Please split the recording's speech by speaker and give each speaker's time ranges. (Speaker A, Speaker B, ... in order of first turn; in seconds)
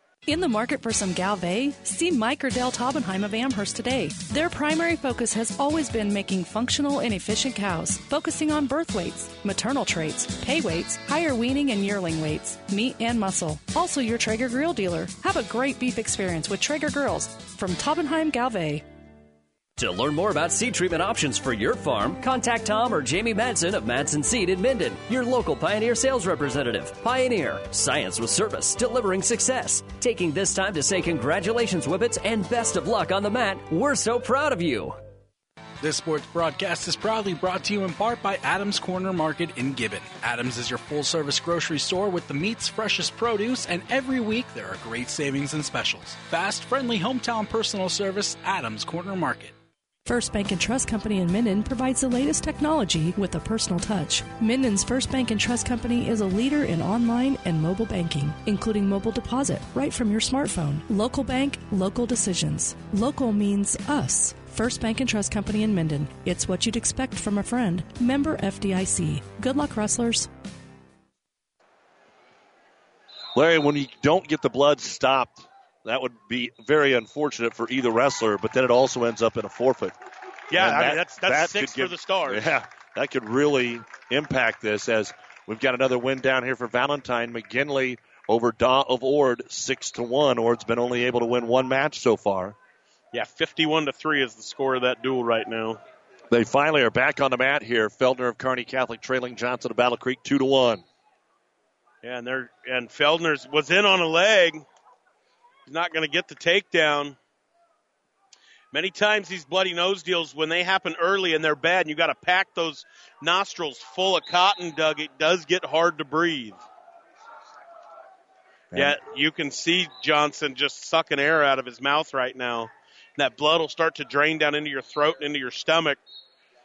Speaker A: 0.3-18.8, 50.1-70.3
Speaker B: 19.8-35.0
Speaker C: 35.8-49.5
Speaker D: 73.3-80.0, 80.5-92.6, 96.3-100.8
Speaker E: 80.5-82.5, 93.1-95.8, 102.0-104.7, 105.7-107.2, 108.7-116.6, 118.7-126.0